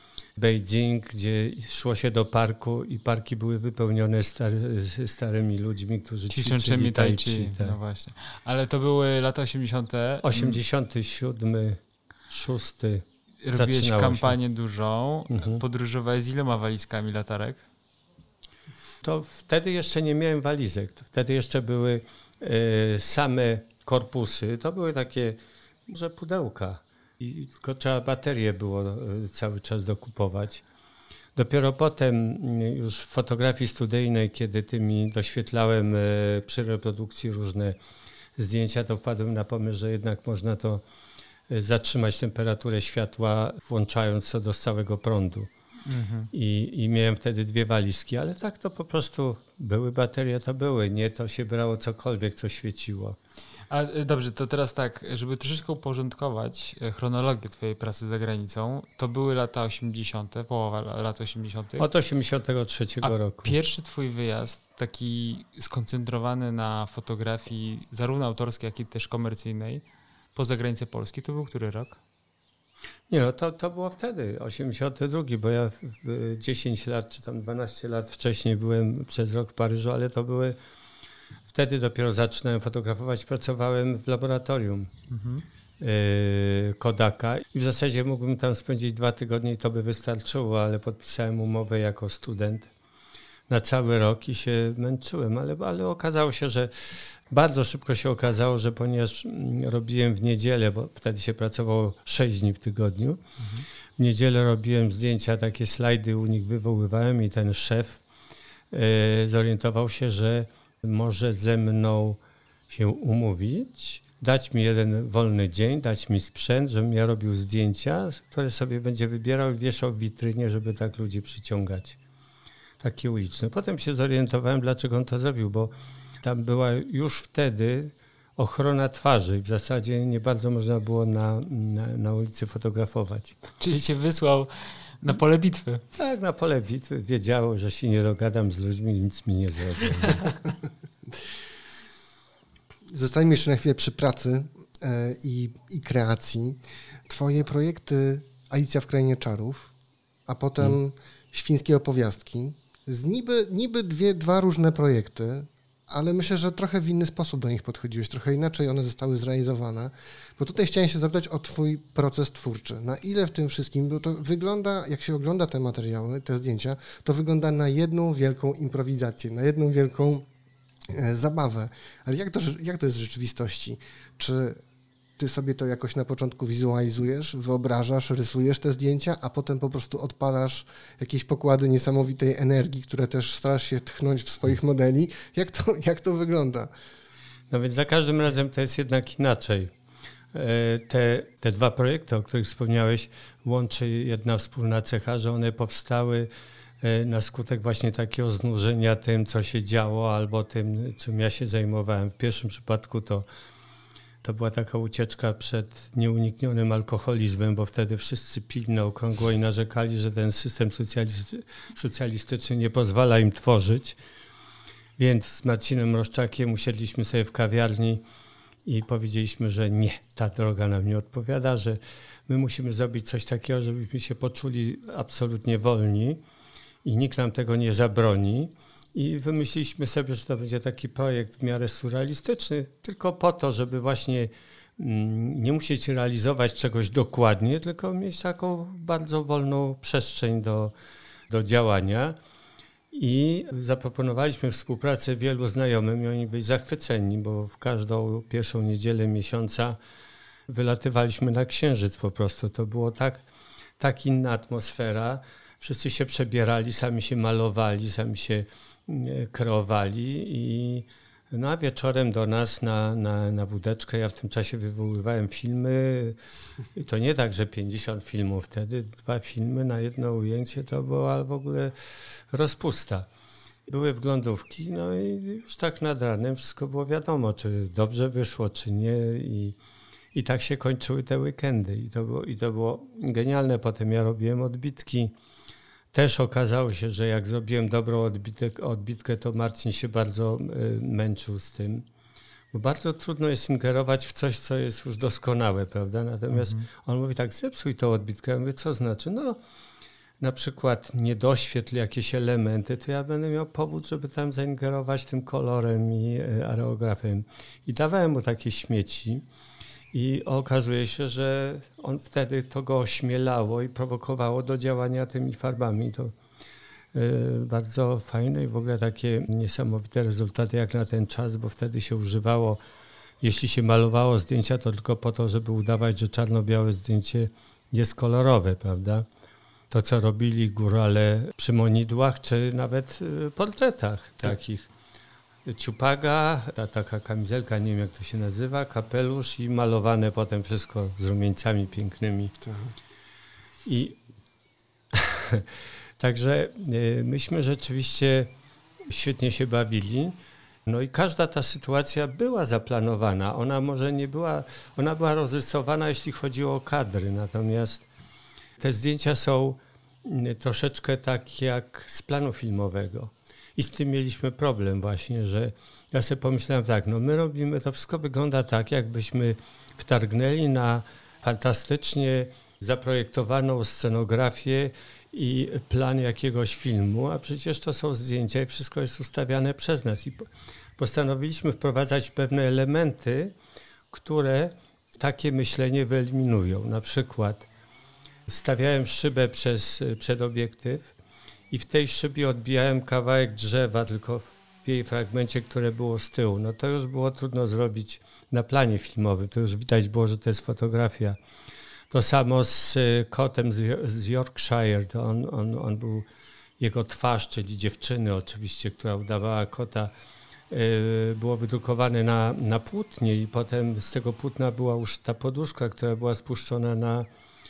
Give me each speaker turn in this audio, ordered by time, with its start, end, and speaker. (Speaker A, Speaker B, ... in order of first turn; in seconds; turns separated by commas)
Speaker A: 0.4-7.8, Speaker B: 6.3-10.6, Speaker A: 10.2-14.4, Speaker B: 13.4-17.6, Speaker A: 15.3-15.6, Speaker A: 19.0-30.6, Speaker A: 31.3-37.8, Speaker A: 38.4-40.8, Speaker A: 41.5-45.5, Speaker B: 45.9-46.3, Speaker A: 46.3-53.2, Speaker B: 53.7-61.9, Speaker A: 61.8-63.5, Speaker B: 63.0-69.8, Speaker B: 70.3-72.0, Speaker A: 73.1-80.6, Speaker A: 81.5-84.9, Speaker B: 85.1-85.4, Speaker A: 85.8-92.7, Speaker A: 93.5-103.2, Speaker B: 103.4-103.6, Speaker A: 104.0-108.0, Speaker A: 108.7-112.2, Speaker A: 112.7-122.0, Speaker A: 122.8-133.3, Speaker B: 133.6-135.8, Speaker A: 136.0-140.3, Speaker C: 142.9-149.7, Speaker C: 150.2-170.3, Speaker C: 170.9-174.6, Speaker C: 175.2-186.7, Speaker A: 187.5-189.7, Speaker A: 190.3-196.3, Speaker A: 196.8-203.2, Speaker A: 204.2-214.0, Speaker A: 215.0-218.0, Speaker A: 218.6-226.2, Speaker A: 226.8-240.7, Speaker A: 241.3-242.2, Speaker A: 242.9-249.8, Speaker A: 250.5-253.2, Speaker A: 253.8-266.2, Speaker A: 266.7-271.8, Speaker A: 272.3-273.1, Speaker A: 273.7-279.6, Speaker A: 280.1-285.1, Speaker A: 285.9-291.9, Speaker A: 292.5-299.4, Speaker B: 296.3-296.6, Speaker A: 300.2-309.2, Speaker A: 309.9-316.1, Speaker A: 316.9-322.6, Speaker A: 323.2-329.1, Speaker A: 329.7-334.7, Speaker A: 335.4-342.4, Speaker C: 342.4-342.7, Speaker A: 343.6-344.0, Speaker A: 344.9-345.4, Speaker A: 346.0-348.3, Speaker A: 348.9-357.9, Speaker A: 358.6-383.3, Speaker A: 383.9-387.5, Speaker A: 388.3-390.9, Speaker A: 391.5-401.2, Speaker A: 401.9-406.1, Speaker A: 406.6-409.9, Speaker A: 410.5-417.1